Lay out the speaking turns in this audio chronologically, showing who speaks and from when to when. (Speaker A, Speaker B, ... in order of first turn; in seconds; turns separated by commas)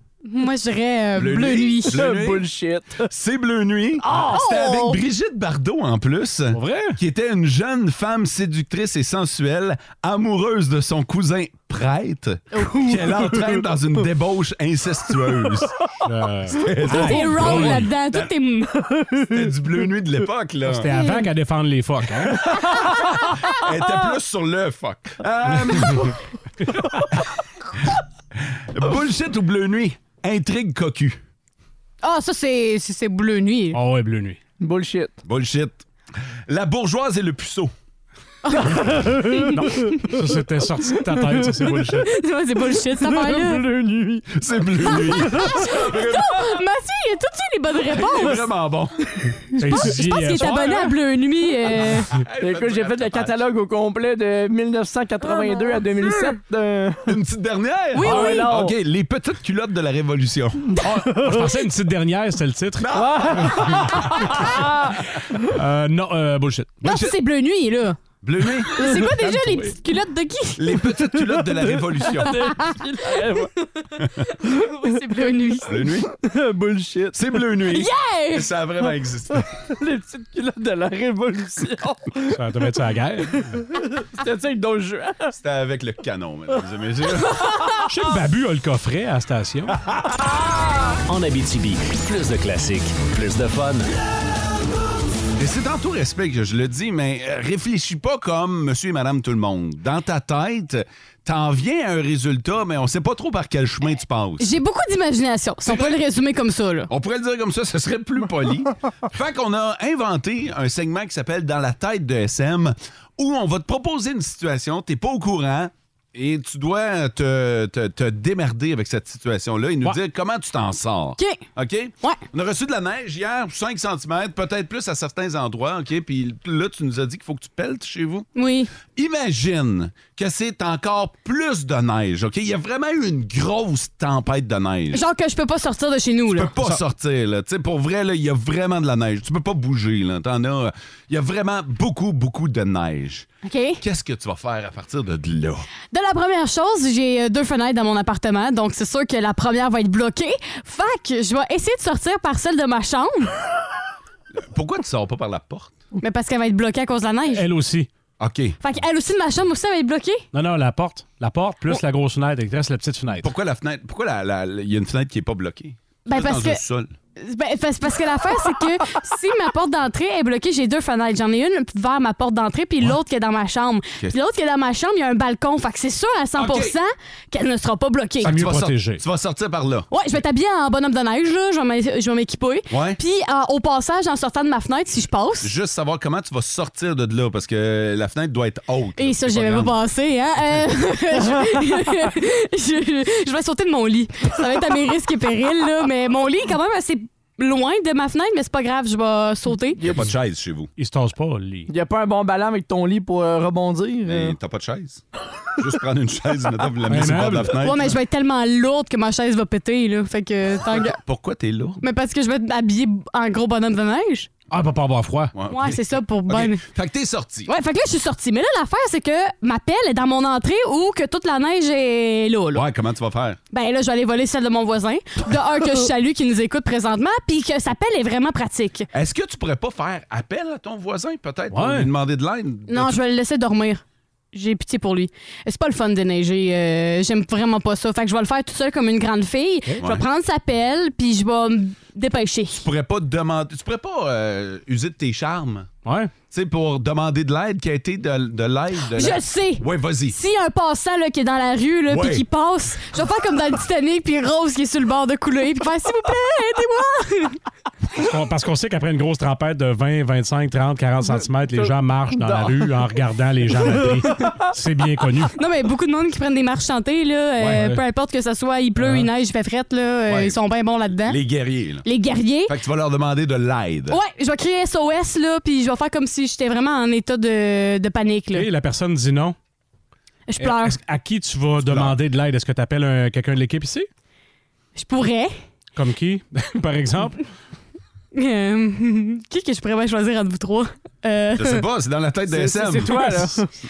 Speaker A: 0.3-2.0, Speaker B: 1.2-2.5, Speaker C: 1.9-3.1, Speaker B: 3.1-15.8, Speaker C: 4.0-4.5, Speaker A: 4.2-5.0, Speaker D: 6.5-7.0, Speaker A: 12.6-13.0, Speaker D: 16.0-17.9, Speaker B: 16.5-18.3, Speaker A: 16.9-18.7, Speaker C: 18.8-19.3, Speaker B: 19.3-20.9, Speaker D: 20.7-22.4, Speaker A: 20.9-21.3, Speaker C: 22.5-23.1, Speaker B: 23.5-26.2, Speaker B: 28.6-31.2, Speaker A: 32.0-33.8, Speaker D: 33.7-34.4, Speaker C: 34.6-35.1, Speaker B: 35.2-35.9, Speaker B: 36.5-37.7, Speaker A: 38.5-40.1, Speaker C: 38.5-40.0, Speaker D: 39.5-42.1, Speaker A: 42.0-43.6, Speaker C: 42.8-46.0, Speaker B: 44.3-46.5, Speaker A: 44.9-48.5, Speaker B: 47.9-49.9, Speaker D: 49.6-50.9, Speaker A: 49.7-52.1, Speaker B: 51.8-53.4, Speaker C: 52.4-57.1, Speaker A: 55.4-55.8, Speaker B: 57.0-60.7, Speaker A: 57.9-58.5, Speaker C: 58.0-58.8, Speaker D: 60.8-64.1, Speaker C: 61.1-61.5, Speaker B: 62.8-64.6, Speaker C: 62.9-65.0, Speaker D: 65.5-66.8, Speaker B: 66.8-67.2, Speaker A: 66.8-68.0, Speaker B: 68.2-68.7, Speaker A: 68.7-70.9, Speaker D: 69.2-69.8, Speaker B: 70.6-72.5, Speaker C: 71.2-73.5, Speaker A: 72.3-75.8, Speaker B: 75.6-76.1, Speaker C: 76.2-77.6, Speaker B: 77.1-79.6, Speaker A: 77.7-78.5, Speaker C: 79.4-82.4, Speaker D: 82.3-83.6, Speaker C: 83.3-85.3, Speaker B: 85.3-87.4, Speaker C: 87.2-87.8, Speaker D: 87.9-89.8, Speaker E: 91.1-93.9, Speaker B: 95.4-104.5, Speaker A: 104.4-106.9, Speaker B: 105.7-106.0, Speaker B: 106.9-128.3, Speaker A: 121.2-121.4, Speaker A: 128.3-128.7, Speaker B: 128.9-135.0, Speaker A: 134.9-136.6, Speaker B: 136.3-143.3, Speaker A: 143.4-143.8, Speaker B: 143.8-145.7, Speaker A: 145.9-153.3, Speaker B: 154.3-155.7, Speaker A: 156.0-157.5, Speaker D: 157.3-157.9, Speaker B: 158.2-158.6, Speaker A: 158.6-160.2, Speaker D: 160.3-163.3, Speaker B: 163.2-166.9, Speaker A: 166.1-166.6, Speaker A: 167.2-178.3, Speaker B: 176.4-176.8, Speaker D: 178.2-179.0, Speaker B: 178.2-179.9, Speaker A: 179.9-185.5, Speaker B: 182.7-183.0, Speaker B: 185.4-189.8, Speaker A: 189.0-199.8, Speaker C: 199.8-200.1, Speaker B: 199.8-200.7, Speaker D: 200.8-201.7, Speaker C: 201.7-204.4, Speaker B: 204.1-205.0, Speaker B: 205.6-208.0, Speaker D: 206.9-207.6, Speaker A: 207.6-211.0, Speaker B: 210.7-211.8, Speaker A: 211.8-214.3, Speaker D: 214.5-215.3, Speaker B: 215.3-217.5, Speaker A: 215.5-216.6, Speaker A: 217.5-222.7, Speaker B: 222.5-223.4, Speaker A: 223.5-228.9, Speaker B: 228.9-233.0, Speaker D: 231.5-231.9, Speaker A: 232.7-242.7, Speaker B: 242.6-245.7, Speaker D: 245.8-246.1, Speaker B: 246.3-250.2, Speaker A: 248.9-257.4, Speaker B: 251.9-252.2, Speaker D: 257.9-265.3, Speaker A: 265.4-271.2, Speaker B: 267.4-267.6, Speaker D: 267.5-267.8, Speaker D: 268.8-269.1, Speaker B: 270.1-270.4, Speaker B: 271.1-271.9, Speaker A: 271.8-272.6, Speaker B: 272.5-274.0, Speaker A: 273.9-278.5, Speaker D: 278.3-279.4, Speaker A: 280.3-280.8, Speaker D: 280.4-283.9, Speaker B: 281.6-282.0, Speaker A: 284.8-285.3, Speaker D: 285.8-287.2, Speaker A: 288.1-291.6, Speaker B: 291.4-293.3, Speaker C: 292.3-293.5